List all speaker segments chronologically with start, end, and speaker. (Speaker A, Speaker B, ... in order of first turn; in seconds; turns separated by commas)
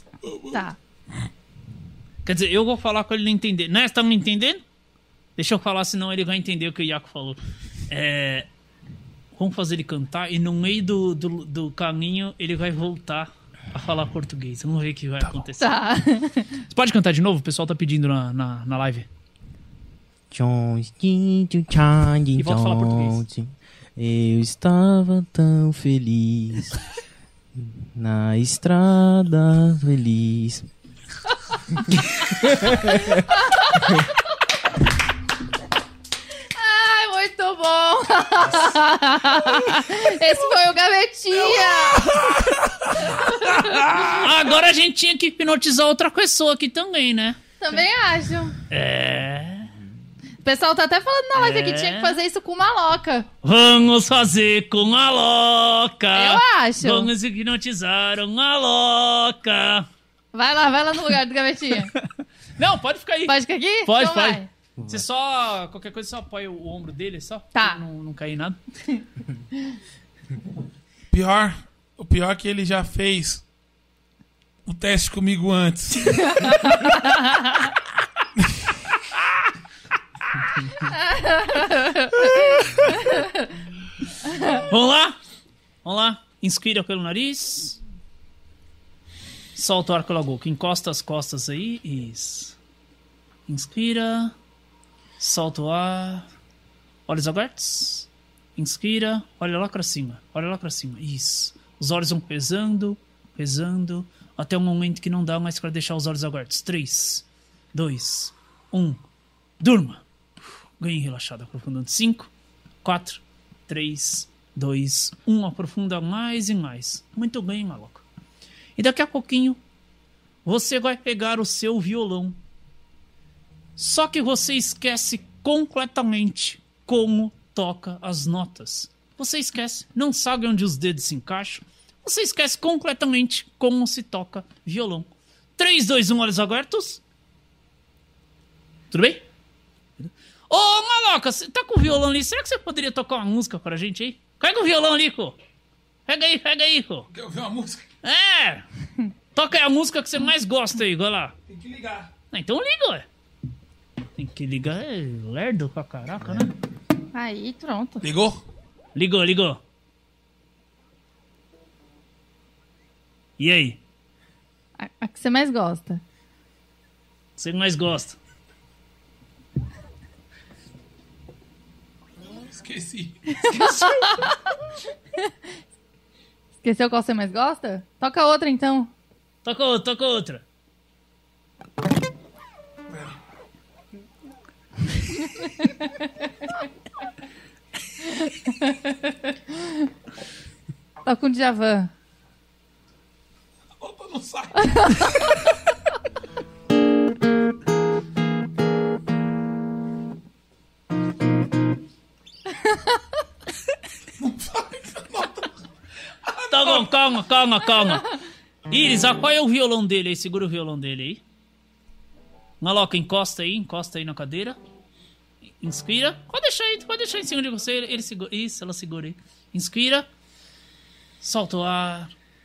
Speaker A: 0.2-0.6, Speaker B: 0.5-0.8, Speaker C: 2.2-4.6, Speaker C: 5.4-7.4, Speaker C: 7.9-8.5, Speaker C: 9.3-15.8, Speaker A: 15.2-15.5, Speaker B: 15.6-16.6, Speaker C: 16.7-19.1, Speaker D: 20.3-26.8, Speaker C: 22.4-23.2, Speaker D: 27.5-30.7, Speaker D: 31.9-33.2, Speaker B: 33.3-33.8, Speaker B: 36.5-42.2, Speaker A: 41.4-44.3, Speaker B: 43.1-43.7, Speaker C: 44.0-47.4, Speaker B: 47.6-48.6, Speaker C: 48.7-49.7, Speaker B: 50.4-53.3, Speaker C: 51.3-52.2, Speaker C: 53.4-59.9, Speaker B: 56.1-57.1, Speaker B: 60.3-61.9, Speaker C: 62.0-68.6, Speaker B: 63.3-64.5, Speaker B: 67.5-67.8, Speaker A: 71.1-73.4, Speaker A: 74.6-76.2, Speaker B: 76.3-76.8, Speaker B: 80.9-83.2, Speaker C: 84.4-85.2, Speaker C: 85.8-87.8, Speaker C: 89.5-92.6, Speaker C: 93.5-94.3, Speaker C: 95.2-96.2, Speaker C: 97.1-109.0, Speaker C: 109.6-110.0, Speaker C: 110.8-112.3, Speaker C: 112.8-118.0, Speaker C: 118.8-119.6, Speaker C: 120.4-122.4, Speaker C: 123.8-137.0, Speaker C: 138.9-139.2, Speaker C: 140.5-145.3, Speaker C: 146.1-147.1, Speaker A: 147.1-147.8, Speaker C: 148.0-148.6, Speaker C: 149.3-151.3, Speaker A: 151.5-152.1, Speaker C: 152.3-153.1, Speaker C: 154.2-156.5, Speaker B: 157.1-158.0, Speaker A: 158.0-158.4, Speaker C: 158.9-159.6, Speaker C: 163.4-163.8, Speaker B: 164.8-166.0, Speaker C: 167.4-168.2, Speaker A: 172.4-173.2, Speaker B: 173.3-174.4, Speaker C: 173.5-174.0, Speaker B: 176.6-178.9, Speaker C: 179.4-180.4, Speaker A: 182.9-183.2, Speaker B: 188.2-189.8, Speaker B: 191.0-191.9, Speaker A: 193.8-195.4, Speaker A: 204.2-205.5, Speaker A: 206.2-207.0, Speaker C: 206.5-208.1, Speaker C: 208.7-211.2, Speaker C: 212.6-214.6, Speaker C: 215.6-220.1, Speaker C: 221.2-222.1